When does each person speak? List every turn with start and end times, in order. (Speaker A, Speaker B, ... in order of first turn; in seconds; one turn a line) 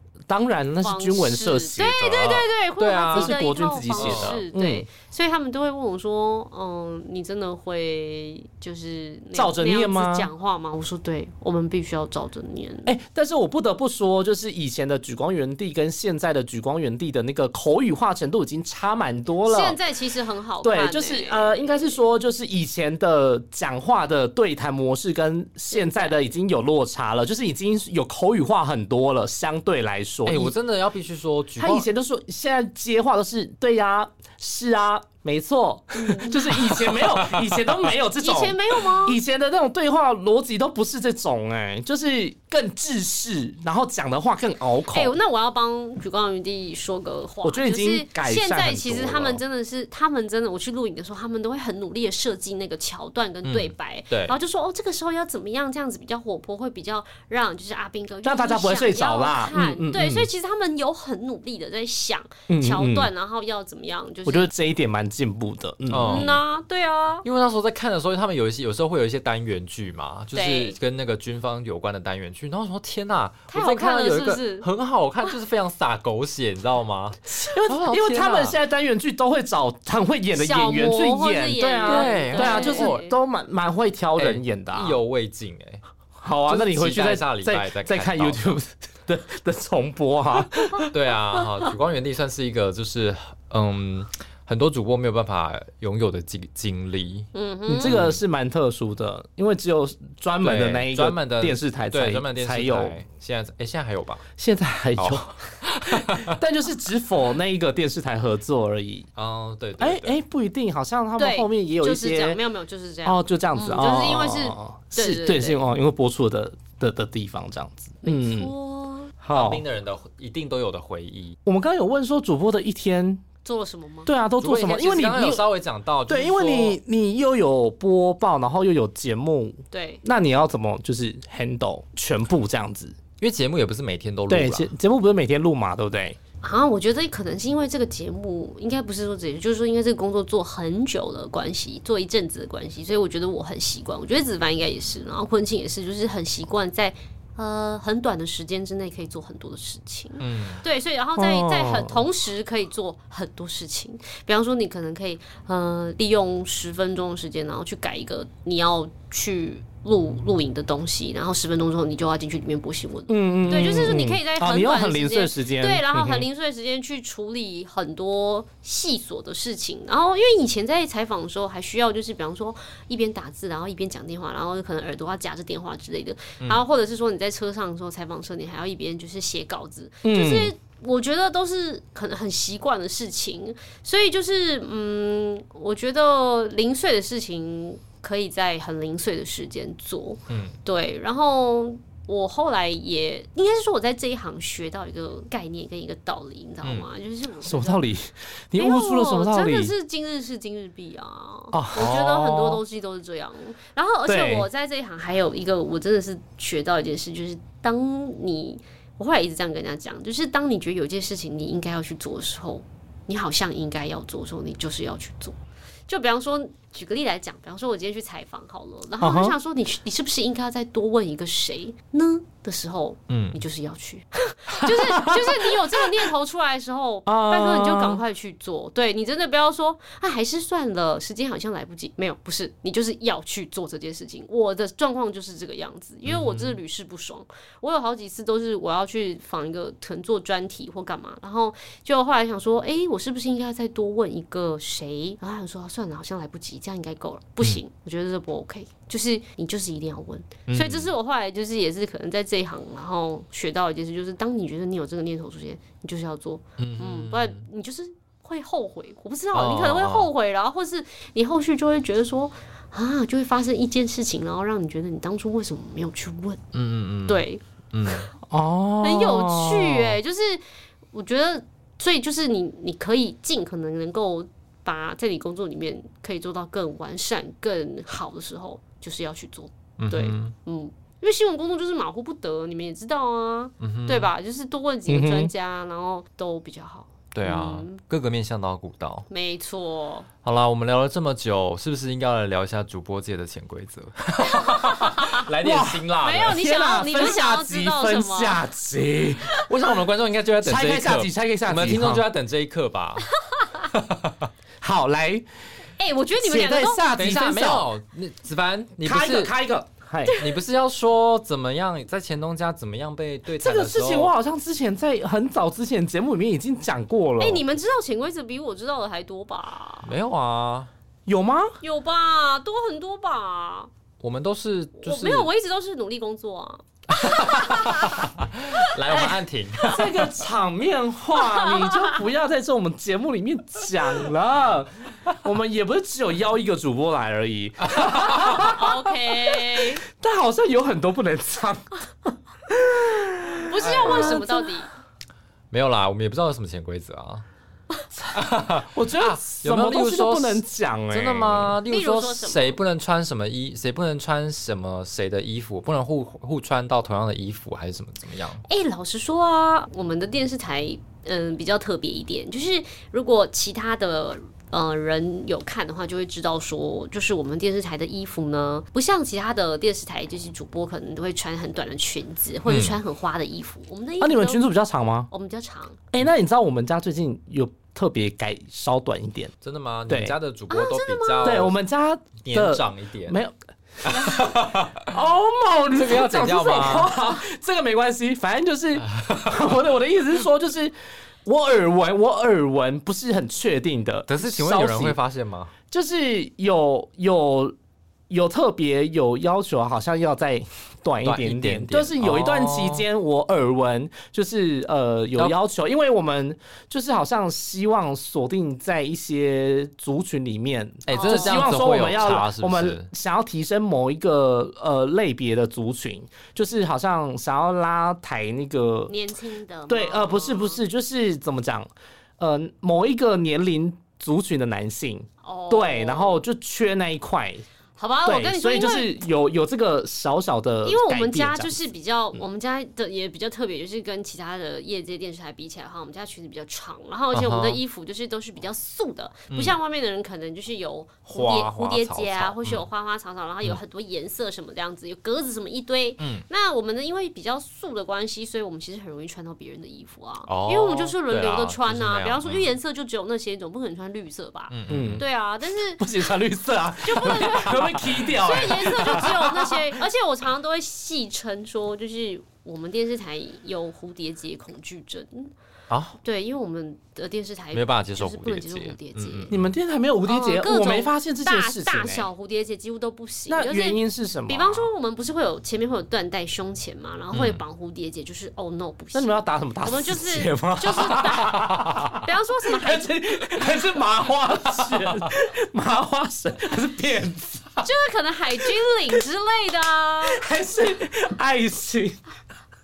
Speaker A: 0.3-2.5
Speaker B: 0.8-12.9
Speaker C: 2.8-3.4
Speaker A: 3.1-4.9
Speaker C: 4.0-4.4
Speaker A: 9.3-10.3
Speaker A: 12.9-19.8
Speaker B: 19.4-22.0
Speaker A: 20.6-30.6
Speaker B: 25.7-26.2
Speaker C: 30.2-31.9
Speaker A: 31.6-45.2
Speaker B: 36.0-36.8
Speaker C: 36.9-37.6
Speaker B: 38.2-39.2
Speaker B: 44.9-64.5
Speaker A: 47.4-49.4
Speaker C: 53.5-54.3
Speaker A: 58.2-60.3
Speaker A: 62.5-63.1
Speaker A: 64.3-66.4
Speaker C: 65.9-66.4
Speaker B: 66.0-67.2
Speaker C: 67.2-78.6
Speaker B: 70.3-70.8
Speaker B: 73.5-74.7
Speaker A: 77.3-85.0
Speaker B: 80.3-83.2
Speaker C: 81.9-83.0
Speaker C: 84.2-85.8
Speaker A: 86.2-90.9
Speaker C: 86.3-88.5
Speaker C: 90.9-97.3
Speaker B: 97.3-98.0
Speaker A: 97.7-103.0
Speaker C: 97.8-98.2
Speaker C: 100.4-104.2
Speaker A: 104.4-109.1
Speaker C: 105.0-106.4
Speaker C: 109.2-110.2
Speaker A: 109.8-112.4
Speaker B: 111.2-115.6
Speaker A: 113.0-118.5
Speaker B: 118.0-119.1
Speaker A: 119.2-119.6
Speaker C: 119.3-121.4
Speaker A: 121.5-123.2
Speaker B: 123.5-124.1
Speaker A: 124.0-125.5
Speaker C: 124.4-126.8
Speaker A: 126.1-133.0
Speaker B: 129.7-130.0
Speaker C: 133.2-134.7
Speaker A: 134.3-136.2
Speaker B: 136.4-197.9
Speaker C: 150.2-150.6
Speaker A: 151.2-152.1
Speaker A: 163.1-166.3
Speaker A: 180.0-180.5
Speaker C: 190.3-190.6
Speaker A: 197.4-199.7
Speaker B: 198.6-215.4
Speaker A: 201.5-202.6
Speaker A: 204.1-204.5
Speaker B: 215.9-266.4
Speaker A: 219.0-219.3
Speaker C: 223.1-223.4
Speaker A: 224.6-226.1
Speaker A: 227.1-228.0
Speaker C: 236.1-236.6
Speaker C: 250.5-250.9
Speaker C: 256.6-257.4
Speaker C: 259.3-260.1
Speaker C: 266.5-268.1
Speaker B: 267.1-267.4
Speaker A: 268.3-270.0
Speaker B: 268.8-287.8
Speaker C: 279.8-280.3
Speaker C: 283.6-284.1
Speaker A: 284.9-285.3
Speaker C: 287.1-289.1
Speaker B: 289.1-290.1
Speaker C: 290.2-296.4
Speaker B: 294.2-295.2
Speaker A: 295.4-299.4
Speaker B: 296.0-298.4
Speaker C: 299.4-303.1
Speaker A: 300.4-302.1
Speaker B: 303.3-303.7
Speaker C: 303.7-304.3
Speaker A: 304.6-305.2
Speaker B: 305.8-306.9
Speaker A: 306.2-307.7
Speaker C: 306.9-309.3
Speaker A: 308.8-310.2
Speaker B: 310.1-310.4
Speaker C: 310.1-314.1
Speaker A: 313.4-317.4
Speaker B: 317.2-319.9
Speaker C: 319.8-320.7
Speaker A: 321.1-321.6
Speaker B: 321.6-323.7
Speaker C: 324.0-325.3
Speaker B: 324.8-328.1
Speaker C: 326.9-330.1
Speaker A: 329.7-344.4
Speaker B: 331.1-332.0
Speaker C: 337.7-338.5
Speaker B: 338.1-339.8
Speaker B: 343.5-344.7
Speaker C: 343.6-344.3
Speaker C: 345.5-347.2
Speaker A: 347.9-351.6
Speaker C: 348.1-358.4
Speaker B: 351.7-352.6
Speaker B: 358.5-374.4
Speaker C: 372.5-372.8
Speaker A: 374.0-375.1
Speaker B: 375.1-375.8
Speaker A: 375.9-379.3
Speaker C: 379.4-381.6
Speaker A: 379.9-380.1
Speaker B: 380.5-381.5
Speaker A: 381.2-383.3
Speaker C: 382.2-383.2
Speaker C: 383.8-384.9
Speaker A: 383.8-395.0
Speaker C: 385.7-386.9
Speaker C: 388.8-389.5
Speaker C: 394.1-395.5
Speaker A: 395.7-397.6
Speaker A: 398.1-418.9
Speaker C: 401.0-402.9
Speaker C: 410.9-412.9
Speaker B: 410.9-411.6
Speaker B: 418.9-420.6
Speaker A: 419.7-427.4
Speaker B: 425.2-426.2
Speaker B: 427.8-428.9
Speaker A: 428.1-431.6
Speaker B: 430.6-455.9
Speaker C: 437.1-437.6
Speaker C: 439.3-439.6
Speaker C: 441.1-442.6
Speaker C: 446.0-446.2
Speaker C: 450.3-452.5
Speaker C: 454.5-455.0
Speaker A: 454.7-455.1
Speaker A: 455.8-459.8
Speaker B: 456.8-465.3
Speaker C: 465.7-466.0
Speaker B: 466.0-469.4
Speaker C: 467.5-469.5
Speaker A: 469.3-472.1
Speaker B: 470.1-482.9
Speaker A: 473.3-474.7
Speaker C: 477.1-477.4
Speaker A: 478.9-487.7
Speaker B: 487.6-490.2
Speaker A: 488.4-489.0
Speaker A: 490.0-492.0